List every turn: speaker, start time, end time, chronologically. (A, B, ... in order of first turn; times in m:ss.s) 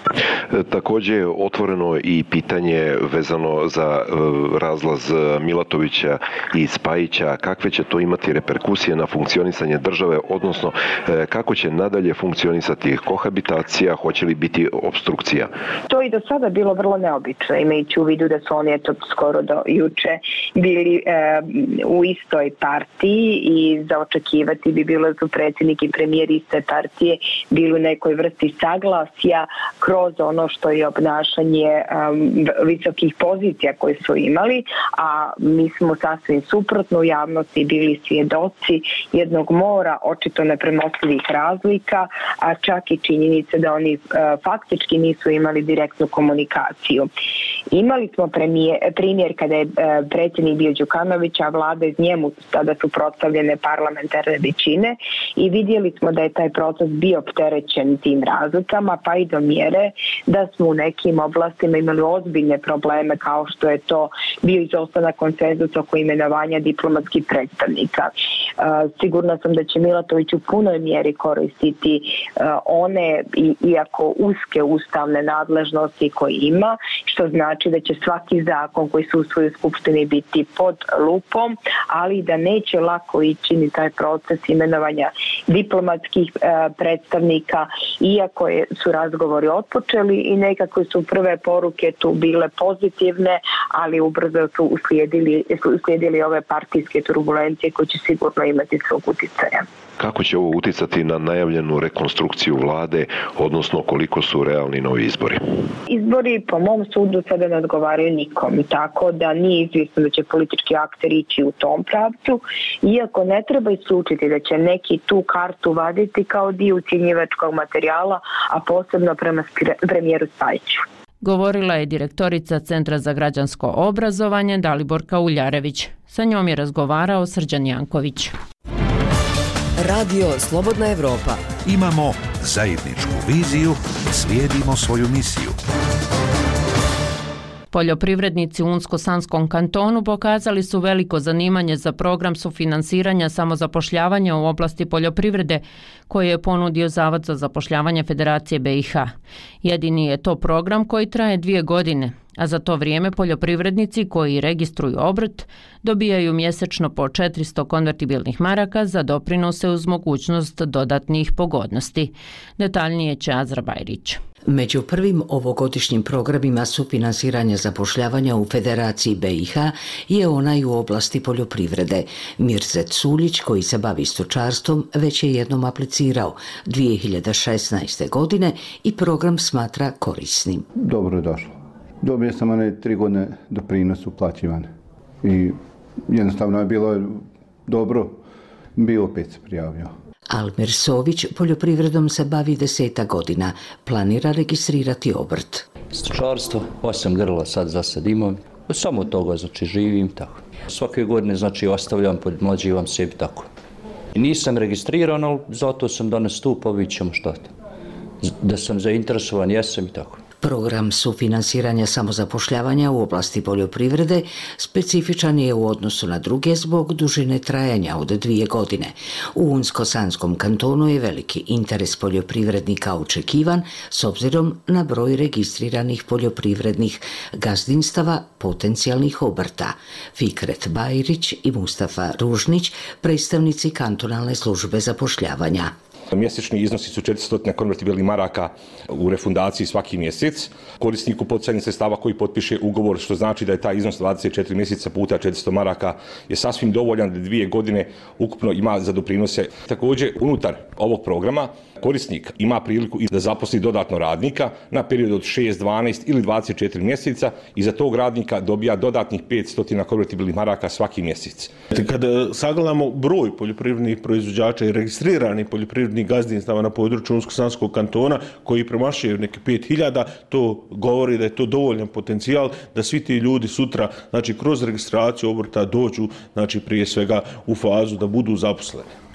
0:00.5-0:15.5 A
0:15.9-0:47.1 B
0:47.7-1:39.6 B
1:40.0-1:45.4 A
1:45.9-2:00.8 B
2:01.2-2:08.3 C
2:11.7-2:15.5 D
2:17.7-2:44.2 C
2:44.5-3:00.7 E
3:00.8-3:04.7 F
3:05.2-3:05.6 F
3:06.1-3:08.2 F
3:08.8-3:09.9 F
3:10.3-3:15.7 E
3:15.9-3:23.5 G
3:24.2-3:27.5 G
3:28.2-3:30.2 G
3:30.4-3:55.7 E
3:56.1-4:21.5 H
4:21.7-4:38.9 I